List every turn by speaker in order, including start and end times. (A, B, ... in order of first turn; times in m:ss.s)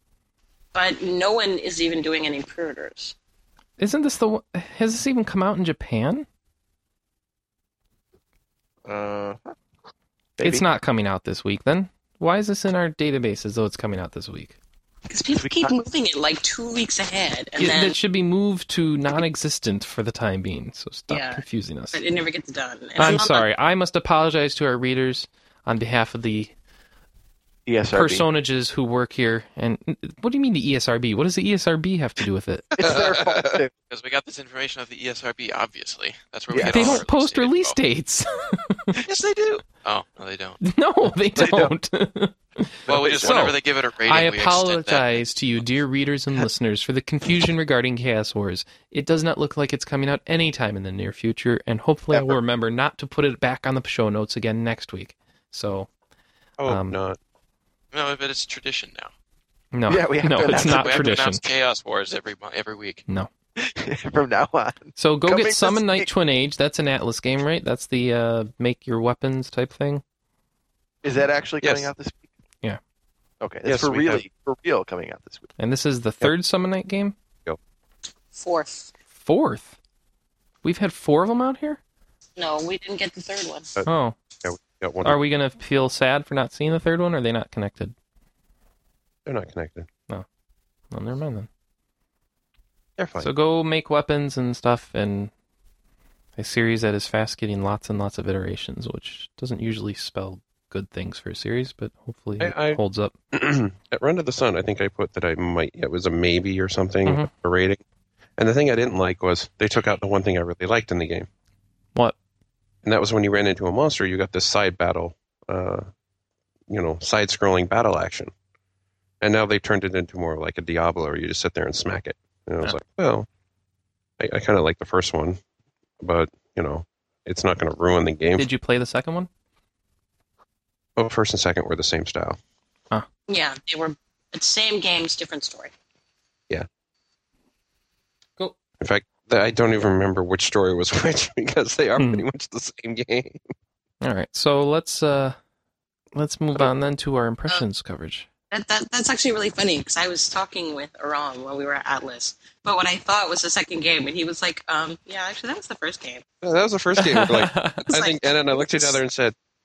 0:00.7-0:03.2 A
0:03.8-0:06.3 B
0:08.9-0:09.5 C
0:10.4-0:10.6 C
0:10.4-0:14.6 B
0:15.1-0:18.0 A
0:15.4-0:15.8 C
0:17.6-0:22.0 B
0:21.1-0:23.5 A
0:23.0-0:26.5 B
0:27.7-0:28.2 C
0:27.9-0:32.7 B
0:32.7-0:33.7 C
0:32.8-0:33.6 D
0:33.9-0:37.8 E
0:36.5-0:37.0 C
0:36.7-0:39.0 B
0:39.0-0:40.6 E
0:40.6-0:55.9 B
0:41.4-0:41.7 C
0:42.9-0:43.5 C
0:42.9-0:45.6 E
0:52.1-0:52.4 C
0:56.6-0:57.2 D
0:56.7-0:57.0 B
0:57.9-0:59.1 E
0:59.7-1:01.4 B
0:59.9-1:01.1 C
1:00.4-1:03.0 E
1:03.6-1:06.1 C
1:05.0-1:10.0 B
1:11.0-1:12.3 C
1:11.6-1:11.9 D
1:13.4-1:15.5 C
1:13.6-1:14.2 D
1:15.6-1:17.2 B
1:18.3-1:18.9 A
1:19.2-1:19.8 B
1:20.6-1:21.8 B
1:22.4-1:23.8 A
1:23.9-1:24.2 B
1:24.4-1:25.2 D
1:25.0-1:28.0 B
1:29.2-1:29.9 D
1:30.9-1:31.5 B
1:33.0-1:33.3 D
1:33.2-1:35.3 B
1:36.4-1:43.2 B
1:42.4-1:42.8 D
1:43.3-1:47.8 D
1:48.4-1:51.3 D
1:52.8-1:55.9 D
1:56.7-1:58.3 D
1:59.2-2:03.3 D
2:04.2-2:05.4 D
2:06.0-2:08.5 D
2:08.4-2:09.3 B
2:11.0-2:12.4 D
2:13.3-2:15.7 A
2:18.8-2:23.4 D
2:22.0-2:22.2 B
2:24.0-2:25.4 B
2:26.2-2:28.3 B
2:28.5-2:36.2 A
2:36.4-2:39.4 D
2:37.0-2:37.8 B
2:37.8-2:39.0 A